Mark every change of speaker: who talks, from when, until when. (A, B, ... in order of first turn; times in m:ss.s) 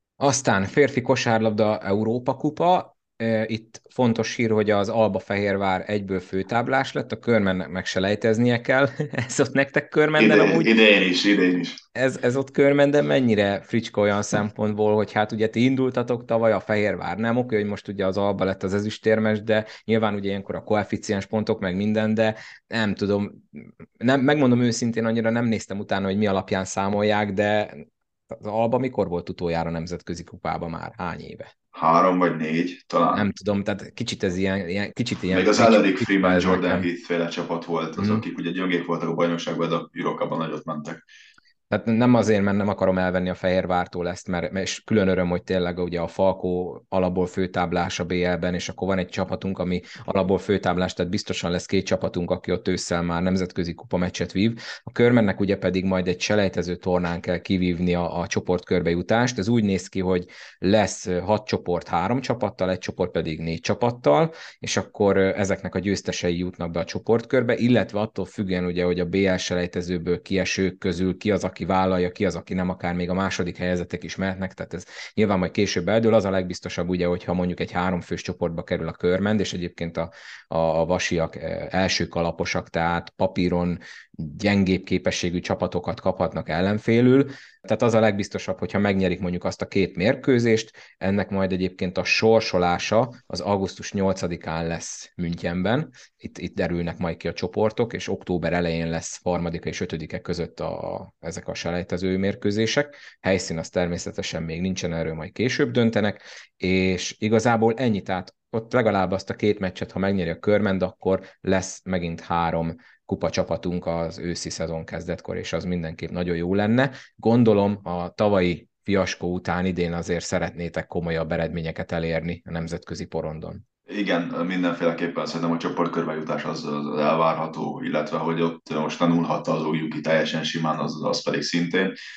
0:00.2-0:10.7 A
0:10.2-0:11.8 B
0:12.0-0:31.5 A
0:31.7-0:33.3 B
0:33.1-0:36.9 A
0:35.3-0:41.0 B
0:38.0-0:38.2 A
0:41.7-2:03.6 A
2:03.9-2:12.0 B